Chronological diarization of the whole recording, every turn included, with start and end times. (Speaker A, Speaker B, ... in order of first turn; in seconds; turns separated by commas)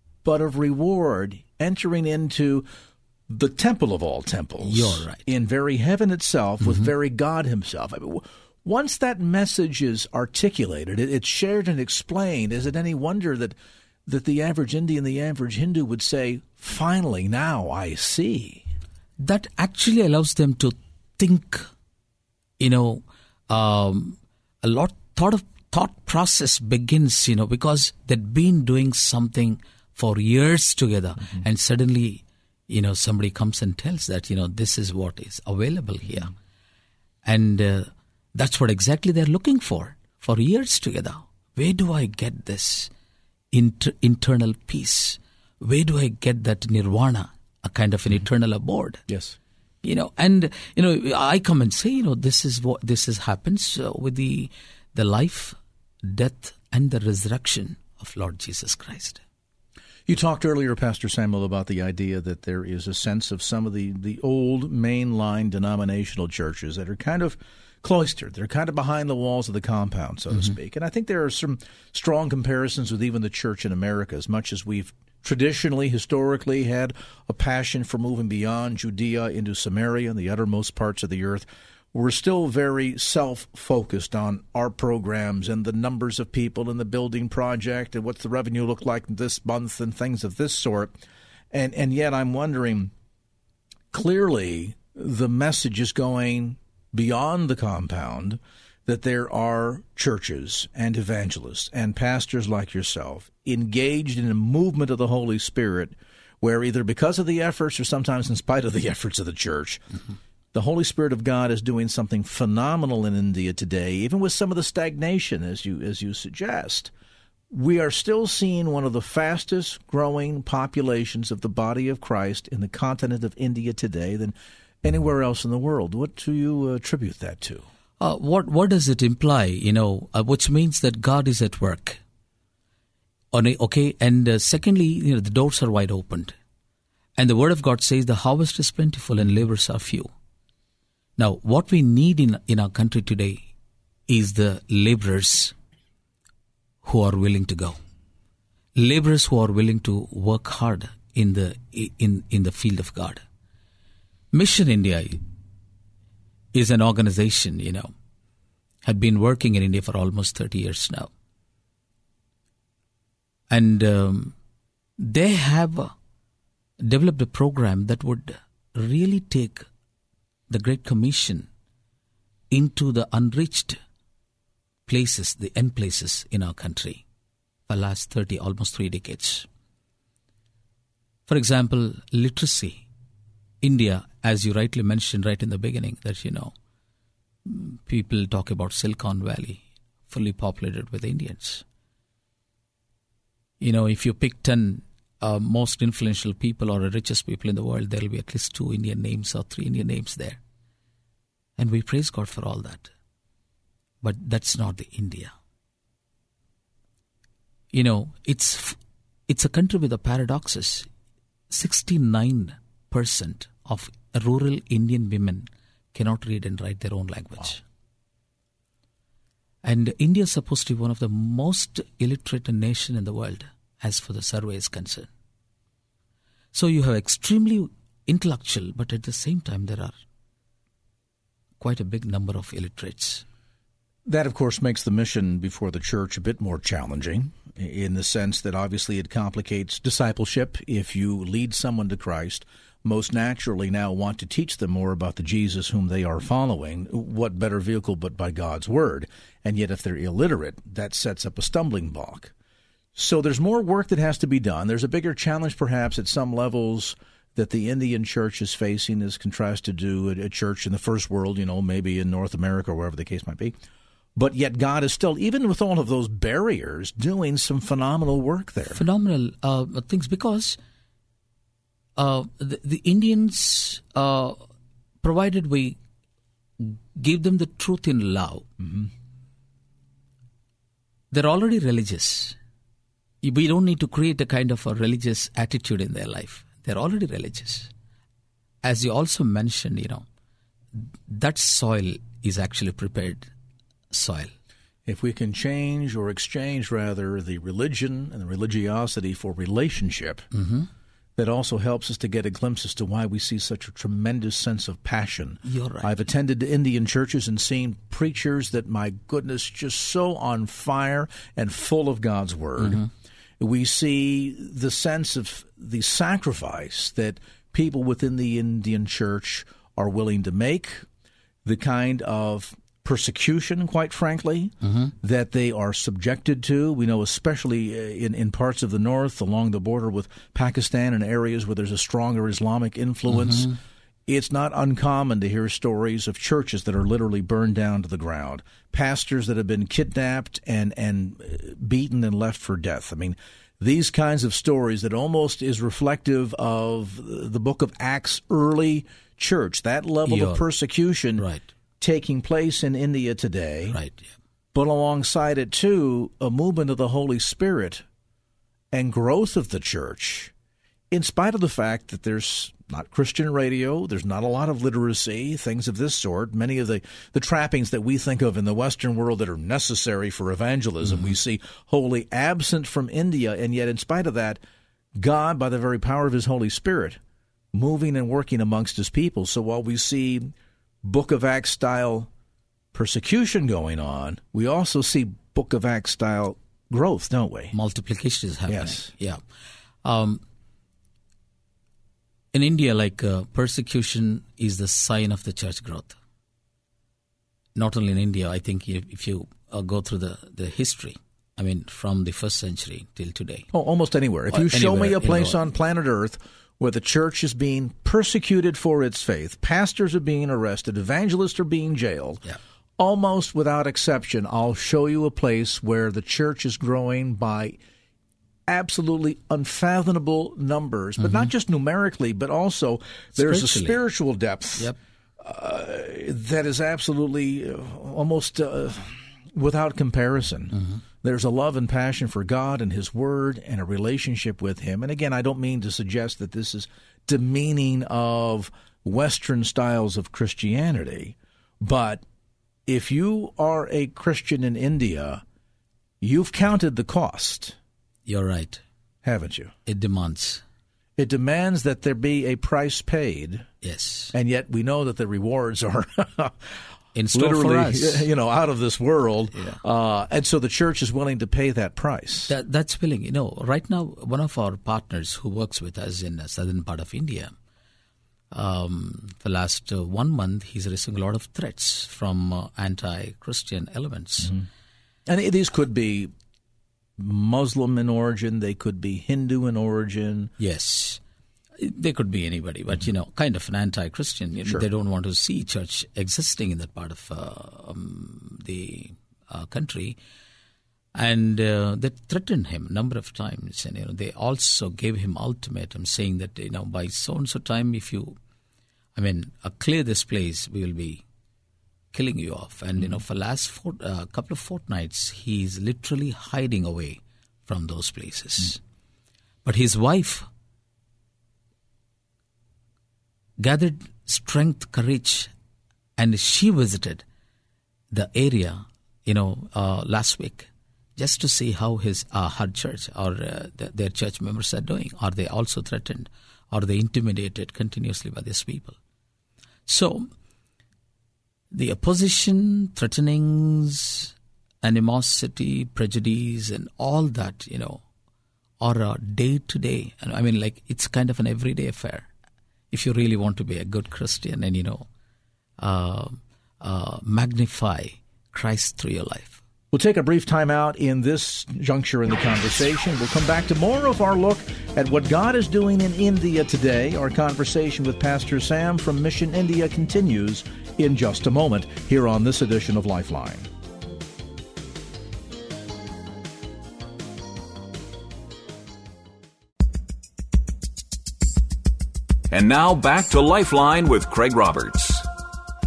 Speaker A: 0.2-2.7, Speaker A: 3.3-18.6, Speaker B: 4.6-5.3, Speaker B: 6.6-6.9, Speaker B: 19.2-21.7, Speaker B: 22.6-36.3, Speaker B: 37.2-42.9, Speaker B: 43.5-49.0, Speaker A: 49.1-49.4, Speaker B: 49.8-59.2, Speaker A: 60.1-91.0, Speaker A: 91.5-92.9, Speaker A: 93.9-109.9, Speaker A: 110.5-116.9, Speaker A: 117.5-127.7, Speaker B: 128.0-132.0, Speaker B: 133.3-136.3, Speaker B: 137.2-140.1, Speaker B: 141.2-143.4, Speaker B: 144.1-145.5, Speaker B: 146.8-147.8, Speaker B: 148.8-153.2, Speaker B: 154.3-155.2, Speaker B: 156.5-157.9, Speaker B: 158.8-161.1, Speaker B: 163.5-164.3, Speaker B: 165.0-165.9, Speaker B: 166.8-169.7, Speaker B: 170.5-171.5, Speaker B: 172.5-173.8, Speaker B: 174.9-177.0, Speaker B: 177.7-179.5, Speaker B: 181.3-182.8, Speaker B: 183.6-186.5, Speaker B: 187.4-191.6, Speaker B: 193.6-200.4, Speaker B: 201.6-202.9, Speaker B: 204.0-205.3, Speaker B: 207.7-208.8, Speaker B: 209.3-210.9, Speaker B: 211.5-217.6, Speaker B: 219.6-225.1, Speaker B: 226.5-229.9, Speaker B: 231.6-233.2, Speaker A: 234.1-252.3, Speaker A: 252.9-263.6, Speaker A: 264.1-268.8, Speaker B: 268.7-270.6, Speaker B: 272.0-274.4, Speaker B: 275.0-275.8, Speaker B: 276.6-278.5, Speaker B: 281.1-282.4, Speaker B: 283.2-287.7, Speaker B: 288.6-290.1, Speaker B: 290.8-293.3, Speaker B: 293.9-294.3, Speaker A: 294.9-300.3, Speaker B: 300.3-300.7, Speaker A: 301.2-312.8, Speaker B: 305.4-305.9, Speaker A: 313.4-320.9, Speaker A: 321.4-333.6, Speaker B: 324.6-324.9, Speaker B: 333.1-333.6, Speaker A: 334.1-351.3, Speaker B: 350.1-350.5, Speaker B: 351.2-351.5, Speaker A: 351.8-353.8, Speaker B: 353.7-354.1, Speaker A: 354.5-357.9, Speaker A: 358.7-360.3, Speaker A: 360.9-374.4, Speaker A: 375.0-377.0, Speaker A: 377.5-382.1, Speaker A: 382.7-387.6, Speaker B: 387.5-389.2, Speaker A: 388.5-388.9, Speaker B: 389.8-390.2, Speaker B: 392.3-396.0, Speaker B: 397.6-403.5, Speaker A: 403.5-412.2, Speaker B: 404.3-405.4, Speaker A: 412.8-417.6, Speaker A: 418.5-442.0, Speaker B: 421.0-421.3, Speaker B: 423.2-423.8, Speaker A: 442.7-445.2, Speaker A: 446.0-447.6, Speaker B: 448.1-448.6, Speaker A: 449.0-449.5, Speaker B: 449.7-450.4, Speaker A: 451.0-453.5, Speaker B: 453.6-454.1, Speaker A: 454.1-456.6, Speaker B: 456.9-458.1, Speaker A: 457.1-462.3, Speaker B: 462.3-467.3, Speaker B: 468.3-474.4, Speaker A: 475.1-476.1, Speaker A: 477.0-480.3, Speaker B: 480.4-481.0, Speaker B: 481.6-490.0, Speaker B: 490.9-498.2, Speaker B: 498.9-501.0, Speaker B: 501.9-508.6, Speaker B: 509.4-510.3, Speaker B: 513.4-515.3, Speaker B: 516.0-517.0, Speaker B: 517.9-528.8, Speaker B: 529.7-530.1, Speaker B: 531.5-537.8, Speaker B: 538.6-542.1, Speaker B: 542.7-544.9, Speaker B: 545.6-549.4, Speaker A: 549.7-563.5, Speaker C: 572.3-575.0